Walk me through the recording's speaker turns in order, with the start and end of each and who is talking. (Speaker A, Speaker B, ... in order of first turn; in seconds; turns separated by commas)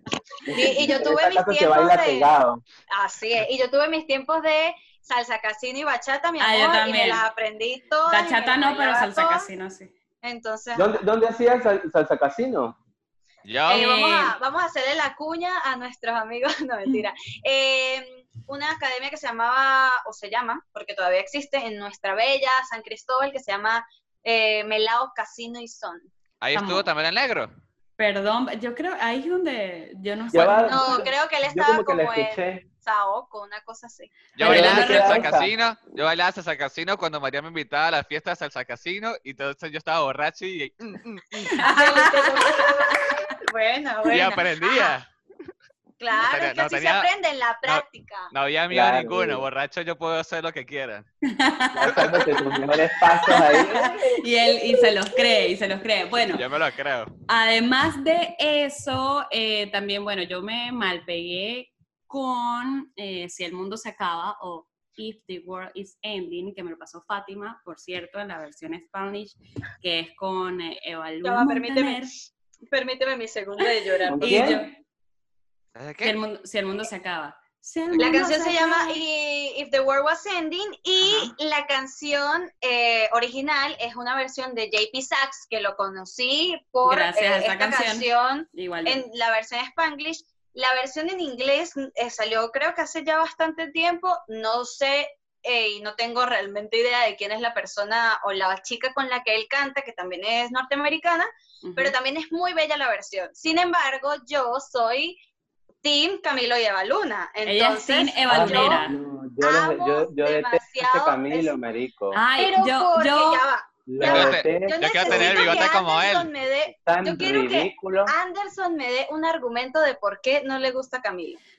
Speaker A: 0.5-2.6, Speaker B: 0.5-2.3, Speaker B: 2.9-9.5, Speaker C: 6.4-7.2, Speaker C: 8.1-9.9, Speaker B: 10.2-10.9, Speaker A: 10.7-12.8, Speaker D: 13.4-14.3, Speaker B: 13.7-26.1, Speaker C: 13.7-14.2, Speaker D: 26.4-27.5, Speaker C: 26.5-26.9, Speaker C: 28.0-31.1, Speaker A: 30.3-32.7, Speaker B: 30.7-34.3, Speaker D: 34.4-41.6, Speaker A: 34.4-35.5, Speaker C: 34.4-35.4, Speaker C: 41.5-43.2, Speaker B: 41.6-45.0, Speaker D: 44.1-45.1, Speaker B: 46.0-48.3, Speaker D: 46.1-47.1, Speaker D: 47.7-51.1, Speaker A: 48.7-49.5, Speaker C: 51.2-56.5, Speaker A: 51.8-54.2, Speaker D: 56.3-57.1, Speaker C: 57.3-72.2, Speaker B: 71.2-74.7, Speaker C: 73.6-74.7, Speaker A: 74.1-74.7, Speaker D: 75.8-76.2, Speaker C: 76.0-79.0, Speaker B: 78.0-105.2, Speaker C: 81.0-81.3, Speaker C: 86.8-89.0, Speaker C: 101.6-102.0, Speaker B: 105.8-108.9, Speaker C: 107.5-109.0, Speaker A: 108.3-112.2, Speaker B: 109.4-111.6, Speaker C: 112.1-113.4, Speaker B: 112.4-121.4, Speaker A: 113.9-115.7, Speaker D: 114.0-116.3, Speaker A: 116.7-118.1